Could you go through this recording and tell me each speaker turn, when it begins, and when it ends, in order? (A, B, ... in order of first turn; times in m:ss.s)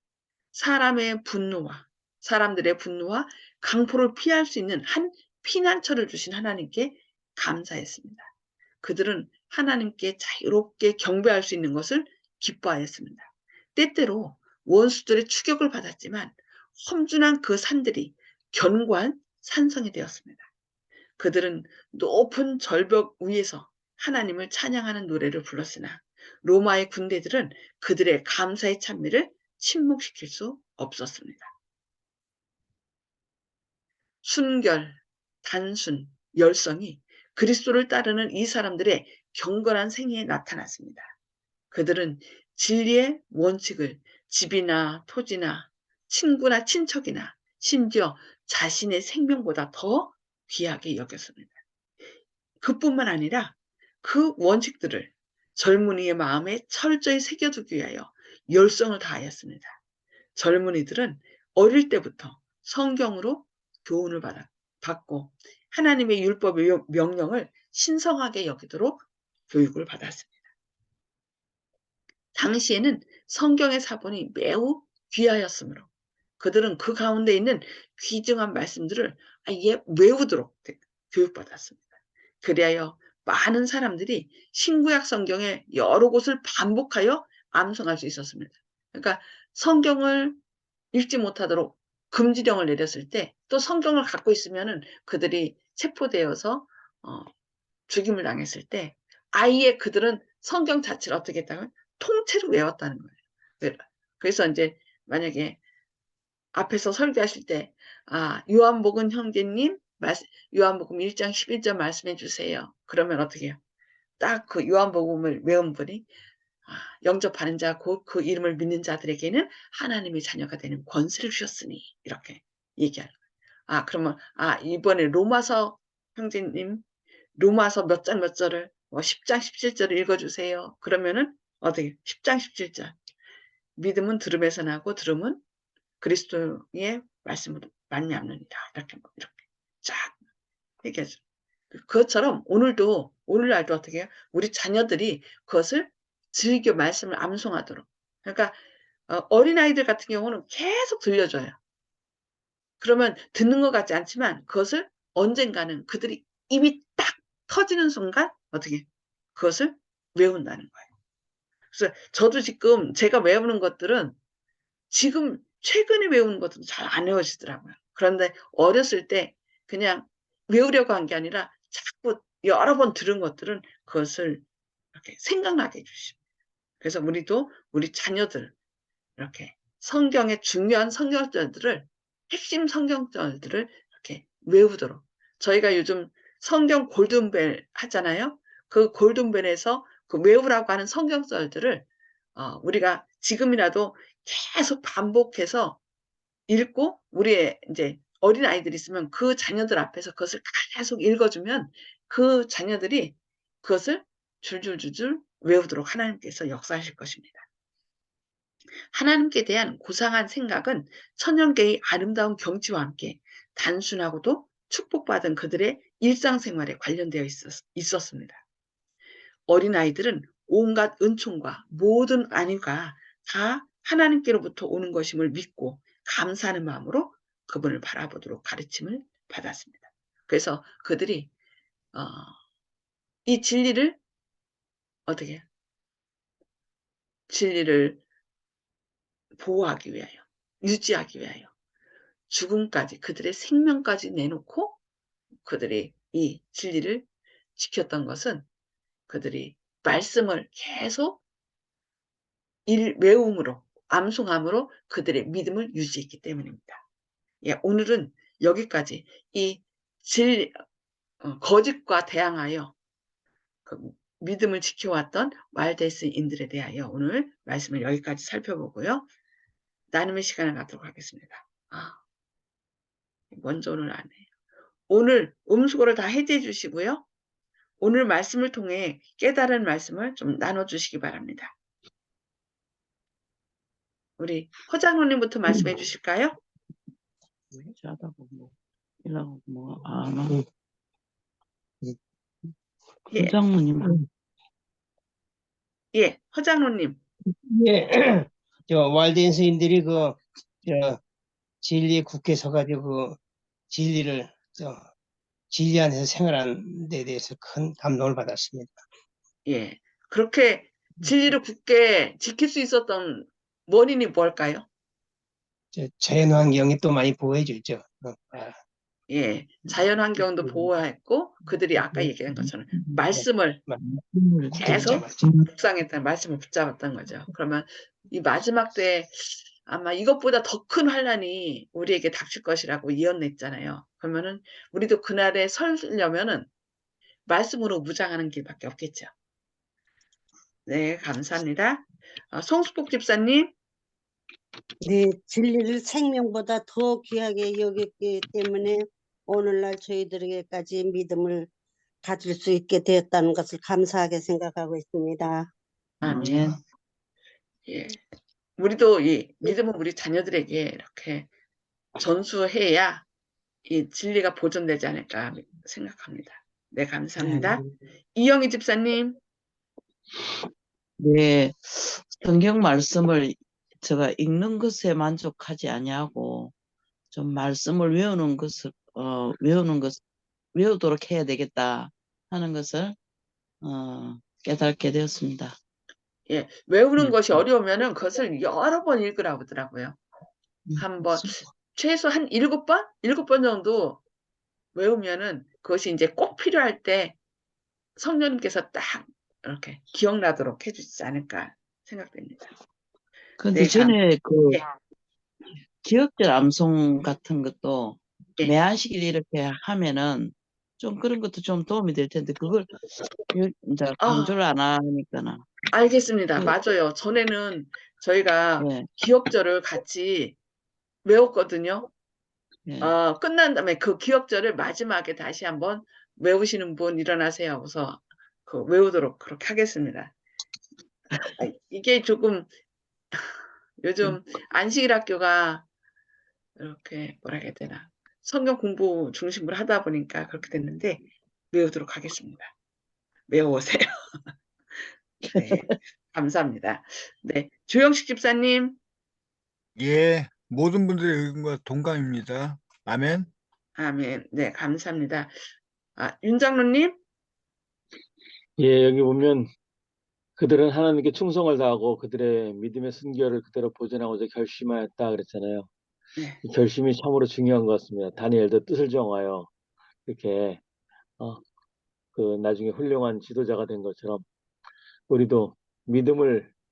0:00.5-0:08.3 A
0:08.8-0:20.5 A
0:21.2-0:31.5 A
0:34.2-0:41.1 A
0:41.7-0:51.5 A
0:52.6-0:59.8 A
1:00.4-1:10.4 A
1:12.4-1:15.9 A
1:16.4-1:21.8 A
1:22.4-1:30.4 A
1:30.9-1:37.3 A
1:37.9-1:45.6 A
1:46.5-1:53.6 A
1:54.2-1:56.1 A
1:56.7-2:03.2 A
2:03.7-2:06.8 A
2:07.4-2:13.0 A
2:13.8-2:15.4 A
2:16.0-2:20.2 A
2:20.8-2:21.2 A
2:21.7-2:28.6 A
2:29.1-2:31.6 A
2:32.8-2:40.9 A
2:41.7-2:44.2 A
2:44.9-2:56.2 A
2:56.8-2:58.5 A
2:59.2-3:15.8 A
3:16.5-3:27.4 A
3:28.9-3:38.4 A
3:39.5-3:51.3 A
3:51.9-3:52.4 A
3:53.3-3:54.0 A
3:55.1-3:55.4 A
3:57.3-3:58.0 A
3:59.4-4:01.5 A
4:02.3-4:04.8 A
4:05.4-4:08.5 A
4:09.1-4:11.2 A
4:12.7-4:16.8 A
4:17.4-4:20.6 A
4:21.2-4:22.8 A
4:23.7-4:29.1 A
4:29.9-4:32.0 A
4:33.3-4:34.3 A
4:34.9-4:37.0 A
4:37.8-4:41.6 A
4:44.2-4:46.4 A
4:47.6-4:50.4 B
4:53.1-4:54.0 B
4:55.9-4:57.0 A
4:57.5-5:01.0 C
5:01.6-5:03.2 C
5:03.7-5:04.9 C
5:05.5-5:08.8 C
5:09.4-5:14.7 A
5:15.7-5:18.6 C
5:19.1-5:23.6 A
5:23.2-5:24.0 C
5:23.9-5:25.4 B
5:24.5-5:25.3 C
5:24.6-5:36.5 A
5:37.3-5:39.1 A
5:40.7-5:43.5 A
5:44.8-5:51.5 D
5:52.0-5:55.5 D
5:56.0-5:56.6 A
5:56.0-5:56.6 B
5:57.7-5:58.0 A
5:58.6-6:01.3 A
6:02.0-6:03.0 A
6:03.7-6:07.6 A
6:08.1-6:09.2 A
6:11.0-6:16.5 B
6:17.1-6:20.0 B
6:20.5-6:23.0 B
6:23.6-6:25.6 B
6:26.3-6:30.0 A
6:30.7-6:31.2 B
6:30.8-6:34.0 A
6:34.7-6:37.2 A
6:38.0-6:42.5 A
6:43.4-6:44.6 B
6:43.5-6:44.0 A
6:45.8-6:52.7 B
6:53.3-6:55.5 B
6:54.0-6:54.4 A
6:55.7-7:00.4 A
6:58.6-6:58.9 B
7:01.0-7:01.9 A
7:02.6-7:02.9 B
7:02.8-7:10.2 A
7:11.4-7:12.5 A
7:13.8-7:15.7 A
7:16.6-7:22.5 A
7:23.3-7:23.9 A
7:25.2-7:28.8 A
7:29.8-7:33.3 E
7:33.8-7:35.3 A
7:36.0-7:37.0 A
7:38.6-7:39.5 F
7:40.4-7:45.7 F
7:46.2-7:46.4 A
7:46.4-7:49.5 F
7:50.1-7:50.6 F
7:52.1-7:54.2 F
7:55.1-7:56.5 F